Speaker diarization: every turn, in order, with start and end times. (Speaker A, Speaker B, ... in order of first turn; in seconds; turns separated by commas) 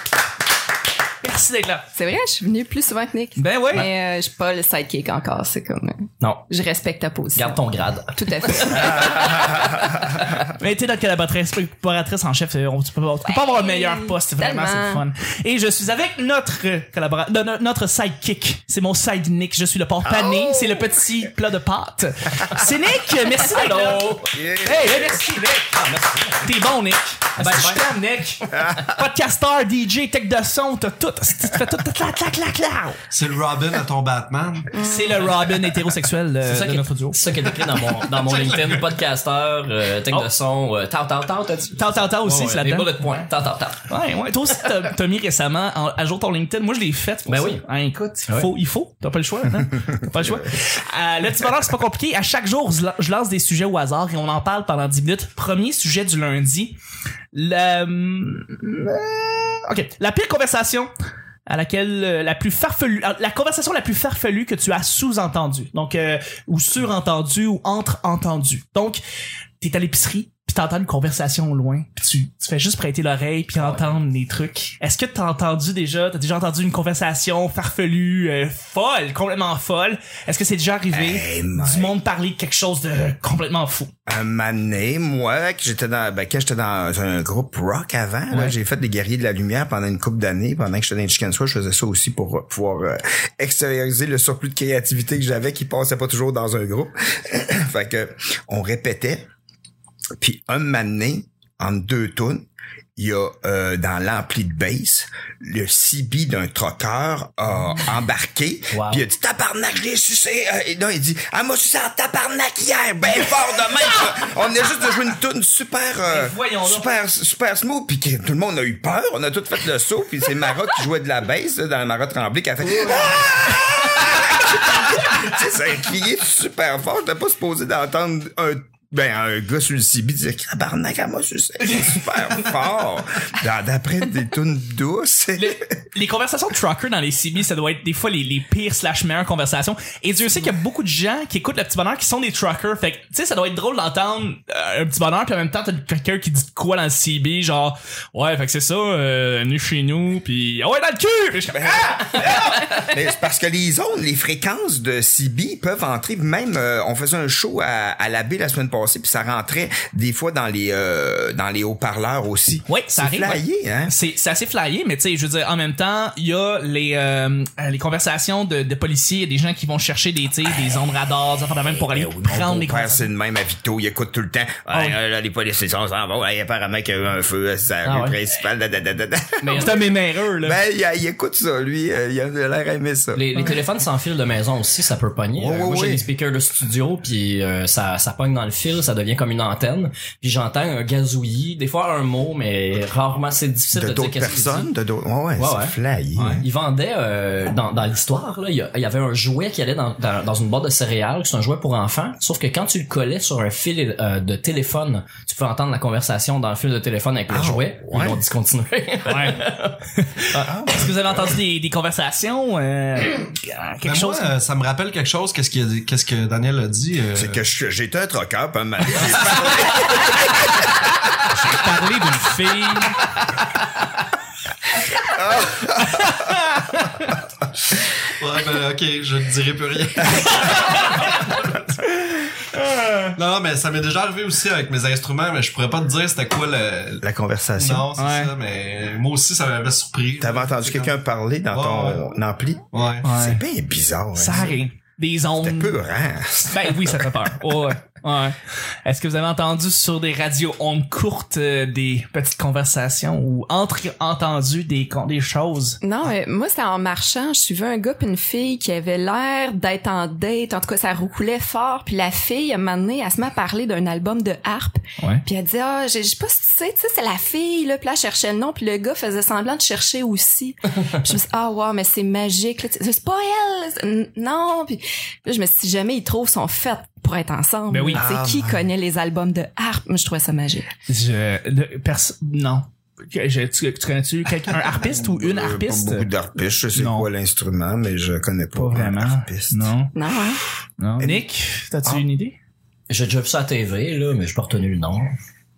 Speaker A: 1.2-1.9, Speaker B: 1.9-9.7, Speaker A: 3.4-3.9, Speaker C: 6.2-6.5, Speaker C: 7.3-9.4, Speaker D: 9.0-9.8, Speaker A: 10.5-25.8, Speaker B: 13.2-15.0, Speaker D: 20.1-21.0, Speaker C: 23.4-24.3, Speaker D: 24.3-25.2, Speaker C: 25.8-26.5, Speaker A: 26.4-33.0, Speaker C: 27.4-27.8, Speaker D: 28.5-29.0, Speaker E: 33.1-34.8, Speaker B: 34.7-35.2, Speaker A: 34.8-37.2, Speaker C: 36.4-43.8, Speaker E: 38.0-38.9, Speaker A: 41.8-43.3, Speaker A: 43.9-56.8, Speaker C: 47.3-47.6, Speaker A: 57.3-60.9, Speaker A: 61.5-69.0, Speaker A: 69.6-83.9, Speaker D: 80.9-82.0, Speaker D: 84.1-99.3, Speaker D: 100.2-135.7, Speaker C: 108.7-109.0, Speaker A: 116.0-116.9, Speaker A: 131.7-132.0, Speaker A: 135.4-152.7, Speaker D: 151.5-163.9, Speaker A: 162.7-173.1, Speaker D: 171.7-179.7, Speaker A: 174.7-175.0, Speaker C: 177.8-178.2, Speaker C: 179.4-179.8, Speaker A: 179.5-180.6, Speaker D: 180.4-183.3, Speaker C: 183.1-194.7, Speaker D: 185.4-186.1, Speaker D: 193.7-196.4, Speaker C: 195.4-209.8, Speaker D: 207.3-208.2, Speaker A: 209.1-214.3, Speaker D: 210.4-211.3, Speaker E: 213.8-217.4, Speaker D: 217.1-220.7, Speaker A: 221.3-223.1, Speaker D: 225.1-226.3, Speaker A: 225.8-227.1, Speaker E: 227.8-231.8, Speaker A: 230.4-230.9, Speaker E: 233.2-237.1, Speaker D: 237.0-237.9, Speaker E: 237.6-240.9, Speaker A: 237.9-238.3, Speaker D: 240.2-244.6, Speaker E: 241.5-242.1, Speaker E: 242.7-243.1, Speaker A: 243.0-243.4, Speaker A: 244.2-245.8, Speaker D: 245.4-247.3, Speaker A: 246.5-255.8, Speaker B: 255.8-280.7, Speaker A: 277.7-278.1, Speaker D: 277.9-278.6, Speaker A: 280.9-286.1, Speaker D: 284.6-289.7, Speaker A: 286.7-287.1, Speaker A: 288.6-289.9, Speaker B: 289.9-290.4, Speaker A: 290.8-292.4, Speaker D: 291.0-291.2, Speaker C: 292.9-295.1